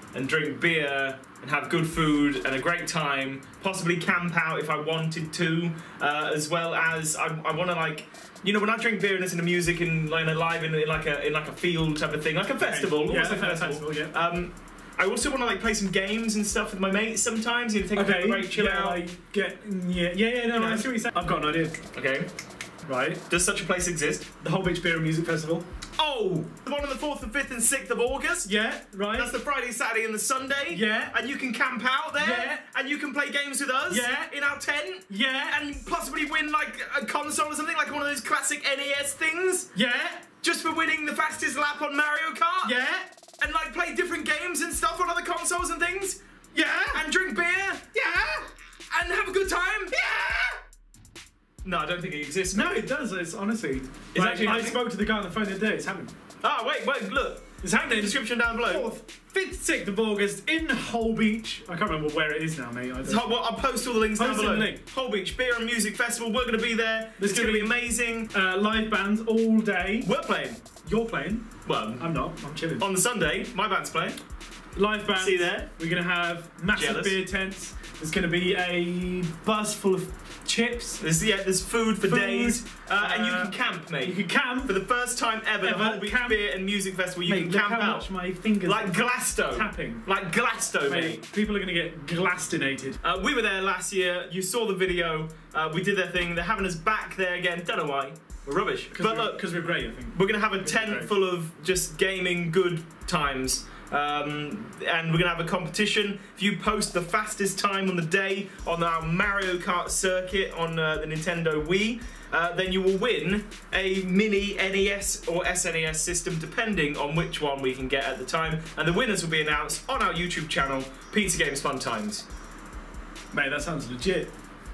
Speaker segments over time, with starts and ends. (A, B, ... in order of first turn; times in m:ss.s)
0:00.1-0:19.0 A
0:12.6-0:14.1 B
0:17.9-0:21.8 B
0:20.5-0:20.9 A
0:21.9-0:22.3 A
0:22.9-0:23.2 B
0:23.3-0:24.3 A
0:24.4-0:25.7 B
0:26.0-0:28.5 A
0:28.5-0:29.3 B
0:29.1-0:39.7 A
0:30.7-0:31.2 B
0:32.2-0:32.6 B
0:33.9-0:34.3 B
0:35.1-0:35.7 B
0:39.8-0:40.3 B
0:40.4-0:42.8 A
0:42.6-0:43.1 B
0:43.4-0:46.2 A
0:46.5-0:47.0 B
0:46.9-0:50.0 A
0:50.0-0:50.5 B
0:51.6-0:52.9 A
0:52.5-0:56.1 B
0:54.1-0:54.8 A
0:56.4-0:58.9 A
0:57.6-1:03.3 B
1:03.0-1:08.3 A
1:04.2-1:04.8 B
1:07.2-1:07.8 B
1:08.3-1:10.1 B
1:10.0-1:10.6 A
1:10.8-1:12.8 B
1:11.6-1:12.0 A
1:12.8-1:14.2 A
1:14.8-1:21.0 B
1:15.2-1:15.7 A
1:16.7-1:17.2 A
1:21.0-1:28.1 A
1:22.0-1:24.8 B
1:25.6-1:26.4 B
1:27.2-1:30.1 B
1:28.6-1:31.2 A
1:30.9-1:33.0 B
1:33.0-1:39.4 A
1:38.9-1:41.1 B
1:40.1-2:02.2 A
2:03.3-2:04.3 B